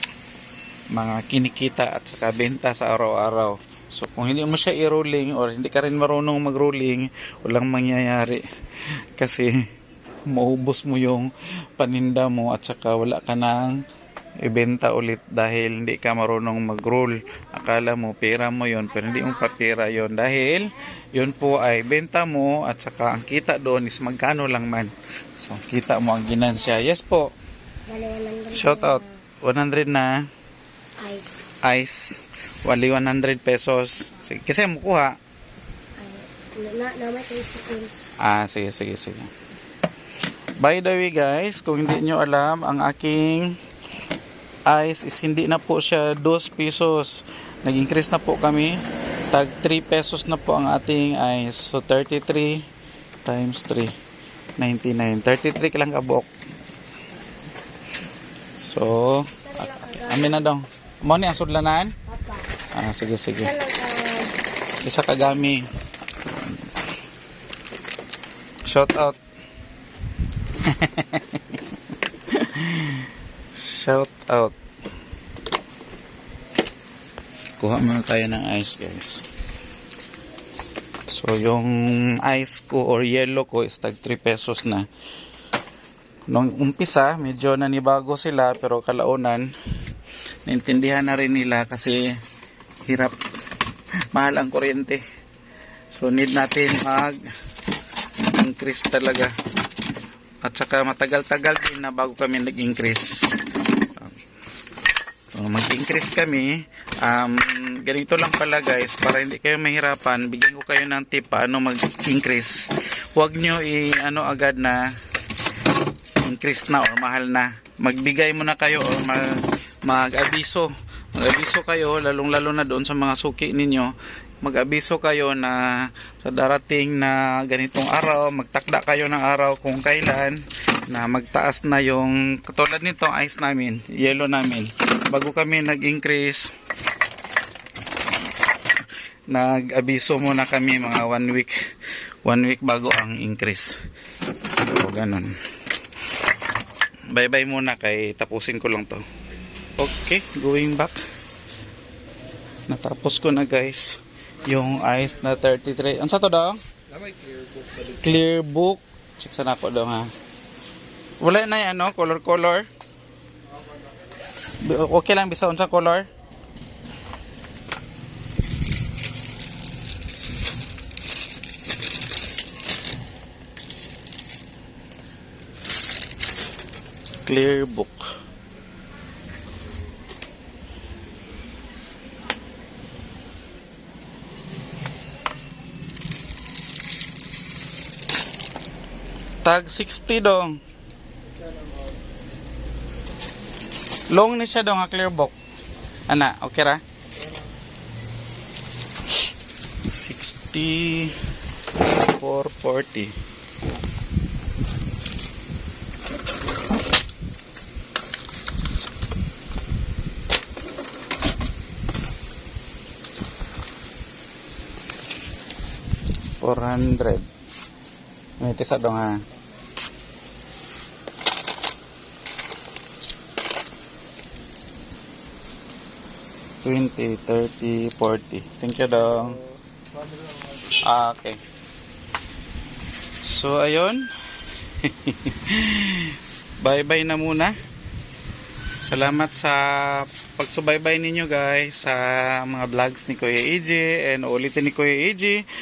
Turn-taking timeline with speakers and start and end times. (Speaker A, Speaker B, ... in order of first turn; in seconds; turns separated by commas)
Speaker A: 0.9-8.4, Speaker A: 9.2-9.5, Speaker A: 10.3-13.8, Speaker A: 14.4-27.3, Speaker B: 27.9-29.1, Speaker A: 28.5-30.2, Speaker B: 31.0-31.4, Speaker A: 31.6-35.1, Speaker B: 36.0-37.9, Speaker A: 38.2-39.3, Speaker A: 40.6-43.6, Speaker A: 44.7-48.8, Speaker A: 49.3-52.6, Speaker A: 53.2-53.9, Speaker A: 54.6-56.3, Speaker A: 58.6-61.9, Speaker B: 59.5-60.5, Speaker B: 62.1-62.5, Speaker A: 62.7-63.5, Speaker B: 63.4-64.3, Speaker A: 64.8-65.7, Speaker A: 68.7-69.2, Speaker A: 70.5-71.6, Speaker A: 72.3-74.5, Speaker A: 77.6-79.2, Speaker A: 81.1-84.9, Speaker A: 86.3-89.5, Speaker A: 90.5-92.1, Speaker A: 92.8-93.2, Speaker A: 94.1-95.0, Speaker A: 95.9-97.2, Speaker A: 98.3-99.3, Speaker A: 100.4-103.4, Speaker A: 105.3-114.9, Speaker A: 116.2-136.5, Speaker A: 139.3-141.6, Speaker A: 142.2-143.8, Speaker A: 144.6-145.3, Speaker A: 147.1-149.0, Speaker A: 149.8-151.0, Speaker A: 152.7-156.6, Speaker A: 157.8-160.1, Speaker A: 161.2-162.7, Speaker A: 164.6-166.1, Speaker A: 177.2-178.1, Speaker A: 189.4-190.6, Speaker A: 194.1-195.3, Speaker A: 196.1-196.8, Speaker A: 199.9-201.2, Speaker A: 201.7-203.1, Speaker A: 216.4-217.2, Speaker A: 218.4-219.2, Speaker A: 226.6-229.4, Speaker A: 230.8-231.4, Speaker A: 233.2-234.1, Speaker A: 234.7-237.6, Speaker A: 238.8-245.4